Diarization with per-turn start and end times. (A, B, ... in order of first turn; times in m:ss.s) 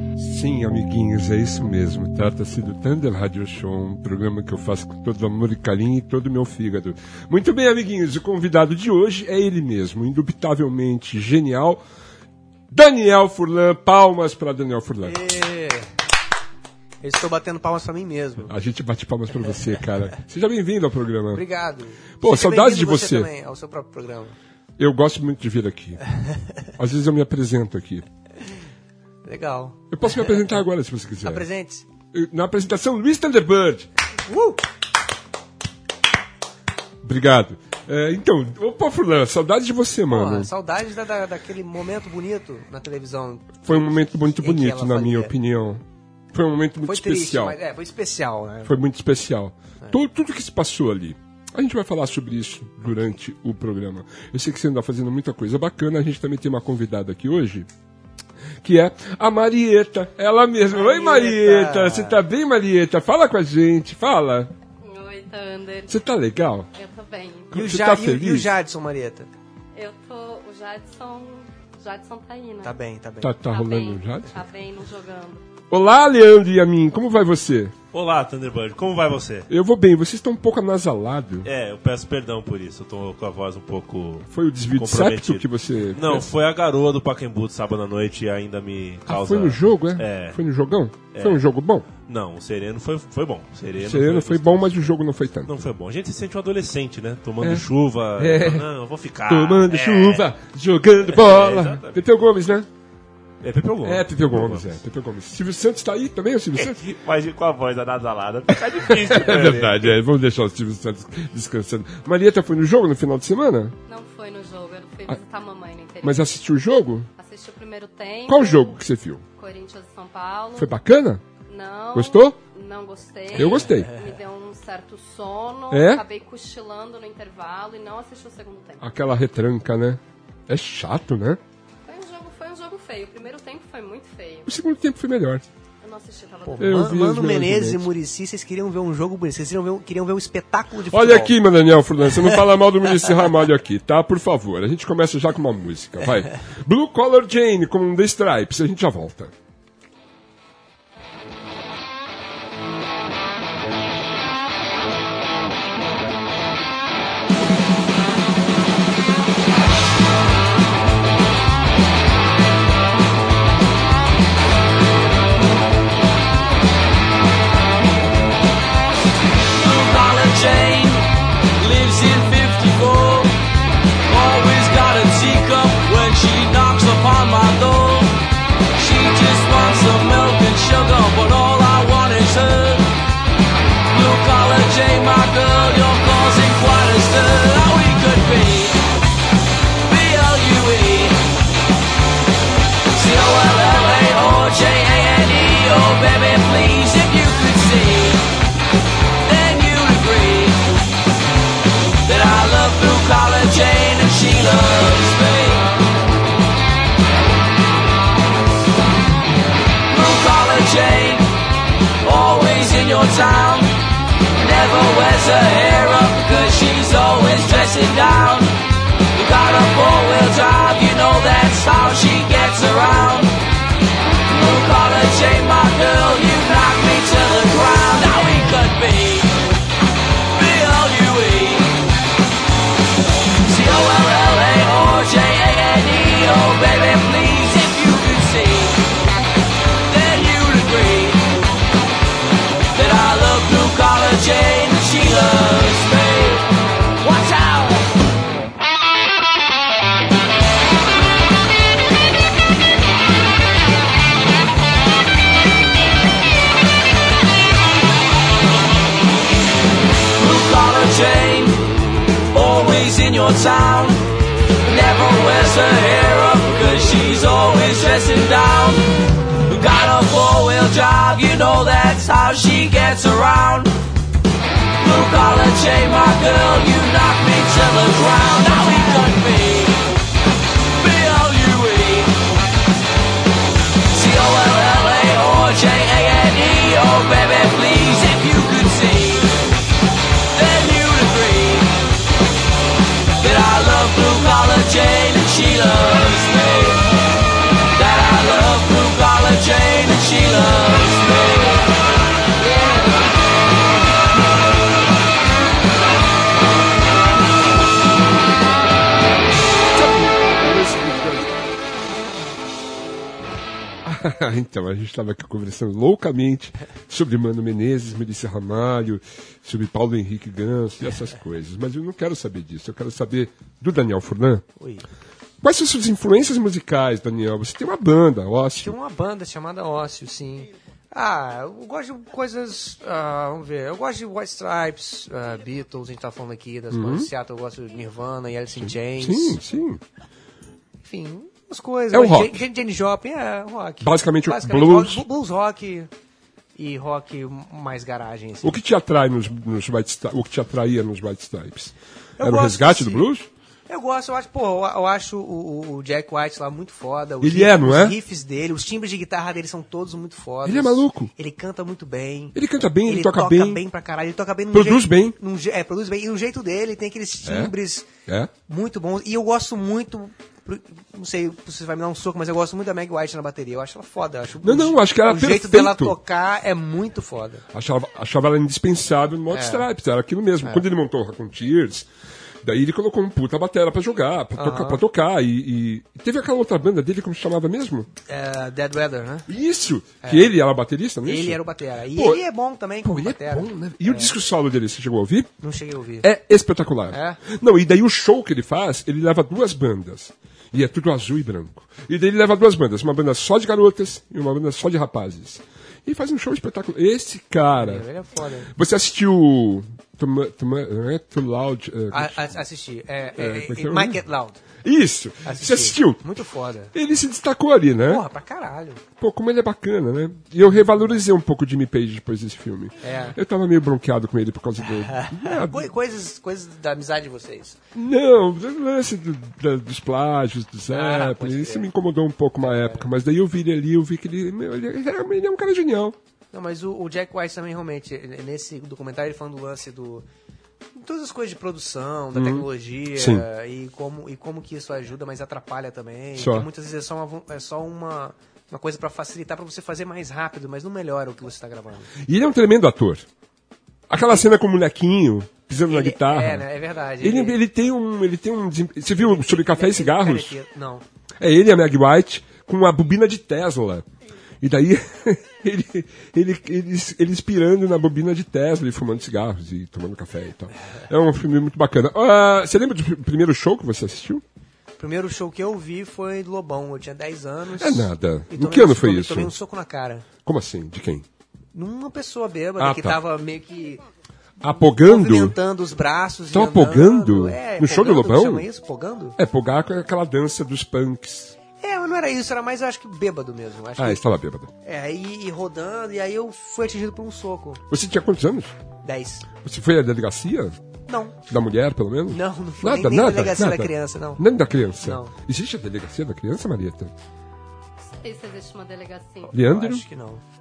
0:00.2-0:11.8 A
0:12.7-0:15.2 A
0:15.0-0:15.9 B
0:17.0-0:18.5 B
0:18.5-0:21.4 A
0:21.3-0:24.4 B
0:22.2-0:23.3 A
0:24.8-0:26.0 A
0:26.8-0:28.0 A
0:29.2-0:30.3 B
0:29.9-0:31.5 A
0:31.2-0:31.8 B
0:32.1-0:33.9 A
0:34.3-0:34.6 B
0:37.0-0:40.5 A
0:40.1-0:45.3 B
0:43.6-0:47.6 A
0:46.8-0:48.7 B
0:48.6-0:57.7 A
0:58.6-1:04.5 A
1:00.7-1:02.2 B
1:04.8-1:05.9 C
1:05.9-1:06.7 A
1:06.7-1:07.6 C
1:07.5-1:08.5 A
1:07.5-1:09.3 B
1:09.7-1:12.8 C
1:12.6-1:13.3 B
1:13.2-1:14.4 A
1:13.5-1:15.4 C
1:15.7-1:17.7 A
1:17.9-1:19.5 D
1:19.5-1:21.5 A
1:21.4-1:30.4 D
1:24.3-1:26.3 A
1:29.1-1:31.9 A
1:31.1-1:31.4 D
1:32.0-1:34.9 D
1:33.8-1:35.6 A
1:35.4-1:40.3 D
1:37.4-1:38.7 A
1:39.2-1:42.7 A
1:41.0-1:42.0 D
1:43.4-1:44.8 D
1:43.8-1:46.8 A
1:46.6-1:50.0 D
1:48.7-1:53.8 A
1:53.9-1:56.3 C
1:56.0-1:57.1 A
1:57.2-1:58.8 C
1:58.2-1:59.2 A
1:59.4-2:00.7 C
2:00.6-2:01.2 A
2:01.5-2:08.8 C
2:01.9-2:02.4 A
2:03.3-2:04.0 A
2:05.7-2:06.0 A
2:08.8-2:11.4 A
2:11.8-2:14.5 C
2:14.4-2:15.4 A
2:15.8-2:17.0 C
2:16.4-2:21.4 B
2:16.6-2:17.9 A
2:20.9-2:29.3 A
2:49.6-2:53.3 E
2:54.1-2:58.2 E
2:58.8-3:02.9 E
3:03.9-3:08.8 E
3:09.8-3:11.2 E
3:12.9-3:18.3 E
3:19.2-3:20.6 E
3:22.0-3:25.6 E
3:29.9-3:31.3 E
3:32.0-3:33.8 E
3:34.4-3:38.5 E
3:39.1-3:43.3 E
3:44.3-3:49.4 E
3:50.3-3:51.8 E
3:53.4-3:58.8 E
3:59.9-4:01.3 E
4:02.7-4:06.5 E
4:07.0-4:07.9 E
4:20.2-4:21.6 E
4:22.3-4:24.0 E
4:24.6-4:33.7 E
4:34.8-4:39.8 E
4:40.8-4:42.2 E
4:43.9-4:49.4 E
4:50.3-4:51.8 E
4:53.2-4:56.8 E
4:57.7-5:01.7 E
5:02.4-5:03.1 E
5:09.7-5:11.4 A
5:13.8-5:24.4 A
5:24.6-5:24.9 B
5:25.4-5:28.7 A
5:28.6-5:39.4 B
5:36.7-5:37.1 A
5:38.6-5:39.8 A
5:40.8-5:45.9 B
5:41.9-5:42.4 A
5:43.8-5:45.0 A
5:46.6-5:48.6 B
5:48.4-5:53.3 A
5:52.2-5:53.1 B
5:53.7-6:07.9 B
5:57.2-5:58.0 A
6:00.4-6:01.1 A
6:02.3-6:03.6 A
6:04.5-6:05.2 A
6:07.2-6:07.5 A
6:08.0-6:08.3 A
6:08.5-6:17.4 B
6:14.4-6:16.0 A
6:17.5-6:21.9 A
6:19.3-6:19.7 B
6:22.4-6:27.9 A
6:24.4-6:24.8 B
6:28.0-6:29.3 B
6:29.3-6:32.2 A
6:30.0-6:30.3 B
6:31.0-6:34.1 B
6:32.8-6:35.3 A
6:35.4-6:36.1 B
6:36.0-6:47.8 A
6:36.9-6:37.2 B
6:47.5-6:48.5 B
6:48.5-6:52.4 A
6:51.9-6:54.4 B
6:53.2-6:54.0 A
6:54.6-6:56.2 A
6:55.2-6:56.7 B
6:56.7-6:58.0 A
6:57.9-6:58.8 B
6:59.0-7:05.7 A
7:00.5-7:01.0 B
7:02.8-7:03.2 B
7:04.6-7:07.6 B
7:07.7-7:16.0 A
7:10.7-7:11.7 B
7:12.4-7:12.8 B
7:16.3-7:20.0 B
7:20.7-7:31.9 B
7:22.1-7:23.2 A
7:26.2-7:26.5 A
7:32.0-7:33.0 A
7:33.9-7:36.4 A
7:35.6-7:37.4 B
7:37.0-7:40.4 A
7:39.0-7:40.8 B
7:41.2-7:43.8 A
7:44.4-7:54.2 A
7:54.8-8:00.0 B
7:57.6-7:59.3 A
8:00.2-8:01.0 A
8:01.5-8:03.8 B
8:02.6-8:03.0 A
8:04.4-8:05.4 A
8:04.7-8:09.2 B
8:06.3-8:08.5 A
8:09.2-8:11.4 A
8:11.6-8:14.0 B
8:13.8-8:14.5 A
8:14.6-8:17.6 B
8:17.7-8:18.5 A
8:18.8-8:19.3 B
8:19.3-8:20.6 A
8:20.9-8:21.2 B
8:21.3-8:26.9 A
8:22.1-8:24.2 B
8:24.8-8:25.1 B
8:27.8-8:29.3 C
8:29.2-8:30.2 B
8:29.3-8:29.8 A